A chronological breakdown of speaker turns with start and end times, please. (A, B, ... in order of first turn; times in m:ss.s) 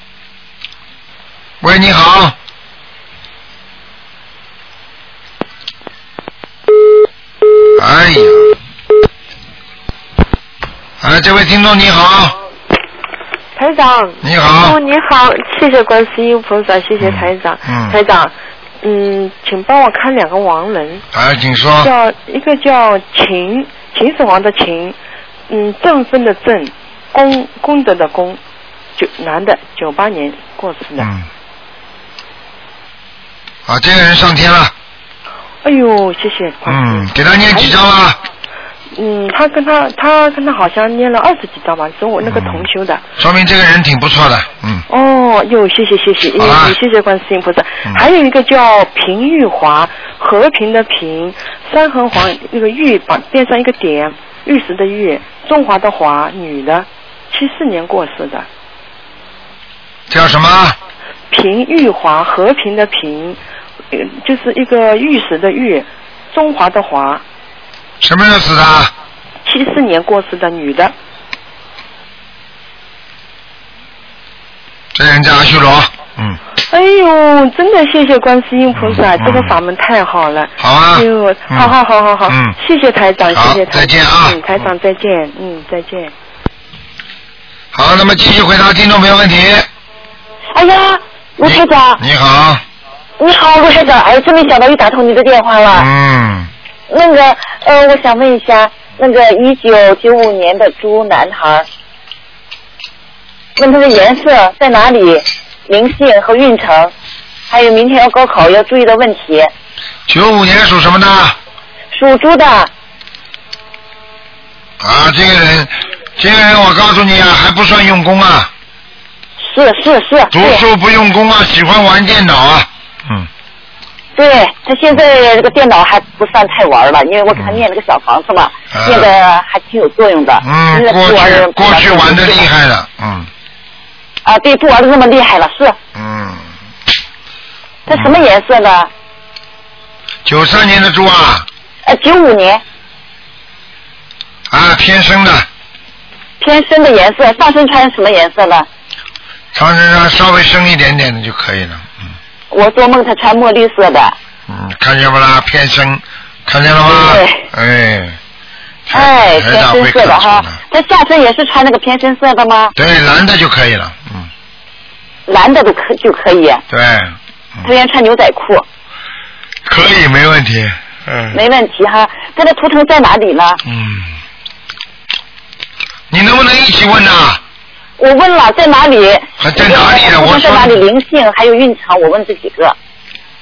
0:01.6-0:02.4 A
0:07.8-0:08.5 A
0:11.0-0:12.4 A
0:13.6-0:21.0 B
0:14.2-0:14.8 A
0:17.0-0:18.0 A
0:21.1-0:21.9 A
0:21.8-0:25.0 B
0:25.5-0:28.4 B
0:29.0-0:31.1 B
0:31.0-0:31.3 A
0:33.7-0:34.7 A
0:35.6-0:37.8 B
0:36.7-0:38.2 A
0:38.9-0:43.0 B
0:42.2-0:42.7 A
0:43.2-0:44.8 A
0:44.9-0:58.5 B
0:46.4-0:46.7 A
1:00.1-1:00.8 A
1:01.3-1:03.4 B
1:03.9-1:07.2 B
1:08.0-1:08.9 A
1:09.4-1:10.9 B
1:15.0-1:16.4 A
1:16.7-1:26.1 B
1:18.8-1:19.5 A
1:20.6-1:21.8 A
1:22.3-1:22.6 A
1:23.3-1:24.7 A
1:27.7-1:29.7 A
1:30.5-1:32.0 C
1:31.4-1:32.6 A
1:33.2-1:35.9 C
1:35.7-1:36.5 A
1:36.9-1:41.7 C
1:43.6-1:46.9 C
1:47.5-1:49.5 C
1:50.1-1:51.4 A
1:51.9-1:52.7 C
1:54.8-1:58.5 A
1:59.4-2:00.6 C
2:00.3-2:03.3 A
2:04.2-2:12.5 C
2:07.3-2:07.6 A
2:08.7-2:09.1 A
2:10.4-2:13.3 A
2:14.2-2:15.8 C
2:16.0-2:16.5 A
2:17.9-2:18.9 C
2:17.9-2:18.3 A
2:20.2-2:21.5 A
2:21.9-2:22.6 C
2:24.5-2:25.5 A
2:26.4-2:28.7 C
2:29.5-2:31.9 A
2:32.5-2:34.2 C
2:34.5-2:38.2 A
2:36.8-2:37.4 C
2:38.9-2:40.6 A
2:38.9-2:42.7 C
2:42.8-2:44.3 A
2:45.3-2:46.6 C
2:46.7-2:47.7 A
2:47.6-2:48.6 C
2:49.6-2:51.4 A
2:51.3-2:53.6 C
2:53.7-2:54.2 A
2:56.1-2:57.4 A
2:58.0-3:02.8 C
2:59.4-3:00.8 A